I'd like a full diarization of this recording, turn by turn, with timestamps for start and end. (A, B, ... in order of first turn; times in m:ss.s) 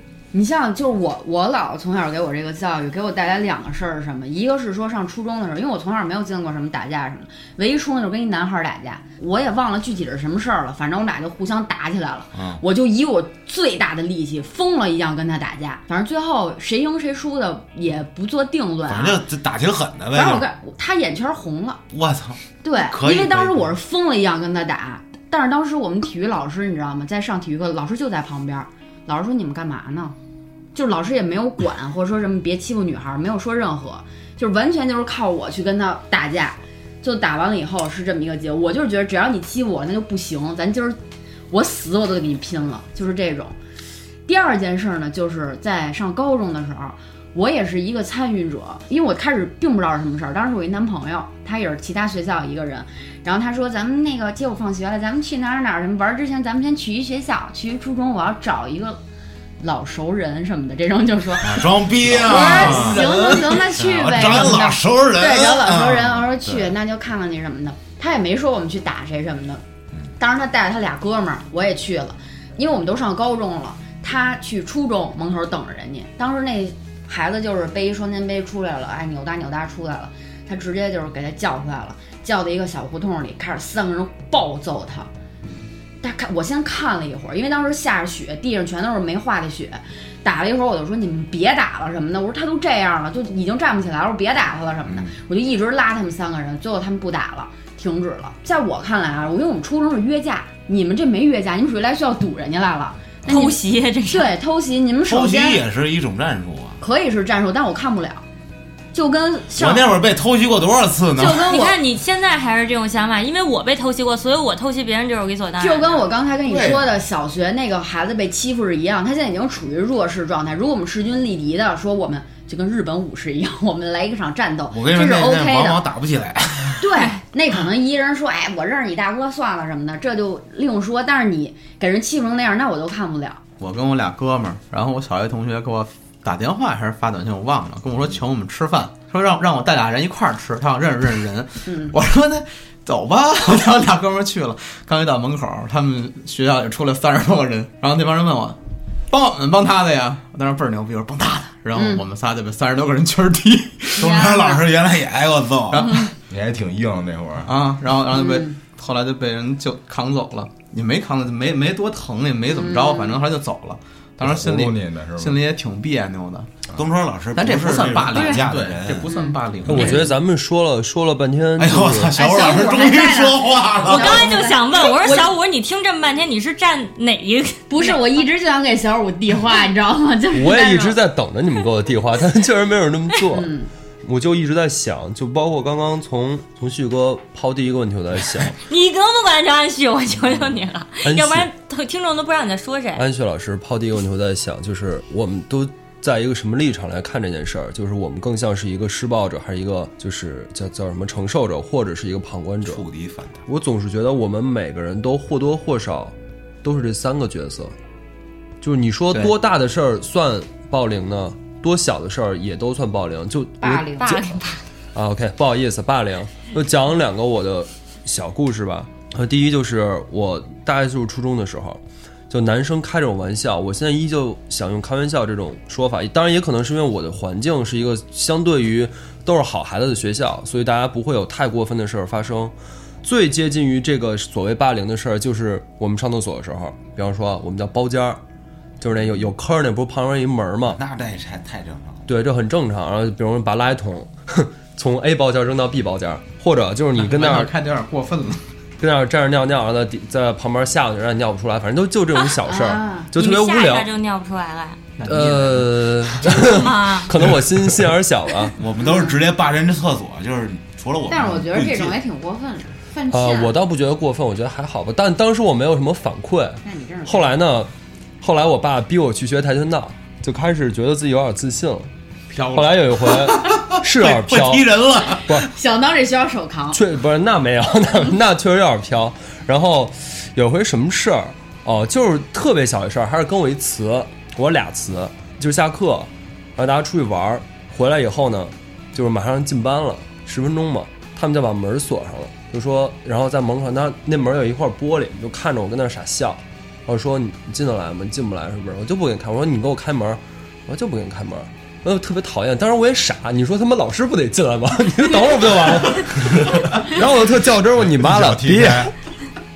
0:00.3-0:19.2 A
0:12.4-0:12.6 B
0:18.9-0:20.5 B
0:20.1-0:21.8 A
0:21.9-0:23.8 B
0:22.6-0:30.2 A
0:30.8-0:41.0 A
0:41.5-0:43.6 A
0:44.3-0:59.0 A
0:59.6-1:09.6 A
1:01.4-1:06.7 B
1:10.2-1:25.1 A
1:26.0-1:45.6 A
1:34.9-1:35.1 B
1:43.3-1:44.3 C
1:45.1-1:46.8 B
1:46.8-1:48.2 A
1:48.9-1:49.9 A
1:49.6-1:51.6 B
1:51.2-1:51.8 A
1:51.5-1:56.1 C
1:55.6-2:05.8 A
1:56.4-1:56.9 B
2:04.7-2:06.9 B
2:06.8-2:13.4 A
2:13.6-2:34.0 D
2:21.7-2:22.0 A
2:31.7-2:32.0 A
2:34.0-2:35.9 B
2:35.7-2:36.1 D
2:35.8-2:36.1 A
2:36.3-2:37.5 E
2:37.5-2:46.5 D
2:38.1-2:38.6 A
2:42.5-2:43.2 A
2:44.2-2:45.4 E
2:46.8-2:49.1 B
2:47.4-2:50.1 D
2:48.2-2:48.4 A
2:49.1-2:50.1 A
2:49.7-2:52.2 F
2:51.6-2:54.3 B
2:52.1-2:55.3 A
2:53.9-2:58.0 C
2:57.7-3:01.0 A
3:00.3-3:08.6 F
3:03.3-3:03.7 A
3:08.7-3:13.0 C
3:11.0-3:11.5 F
3:13.0-3:22.9 F
3:22.6-3:23.4 B
3:23.5-3:27.7 F
3:28.6-3:34.2 F
3:33.6-3:34.3 A
3:34.0-3:34.6 C
3:35.0-3:58.2 F
3:58.8-4:00.8 F
4:00.7-4:02.1 B
4:02.1-4:07.5 F
4:07.0-4:08.4 D
4:08.8-4:13.9 F
4:12.4-4:13.1 A
4:13.2-4:14.8 C
4:15.0-4:16.2 D
4:15.0-4:18.6 F
4:16.3-4:17.1 C
4:18.6-4:22.0 B
4:18.8-4:19.2 A
4:21.1-4:23.6 A
4:23.1-4:31.9 F
4:26.6-4:27.4 A
4:32.3-4:35.4 B
4:32.5-4:35.5 F
4:35.4-4:36.8 A
4:36.7-5:08.9 F
5:08.2-5:08.6 B
5:08.4-5:08.7 E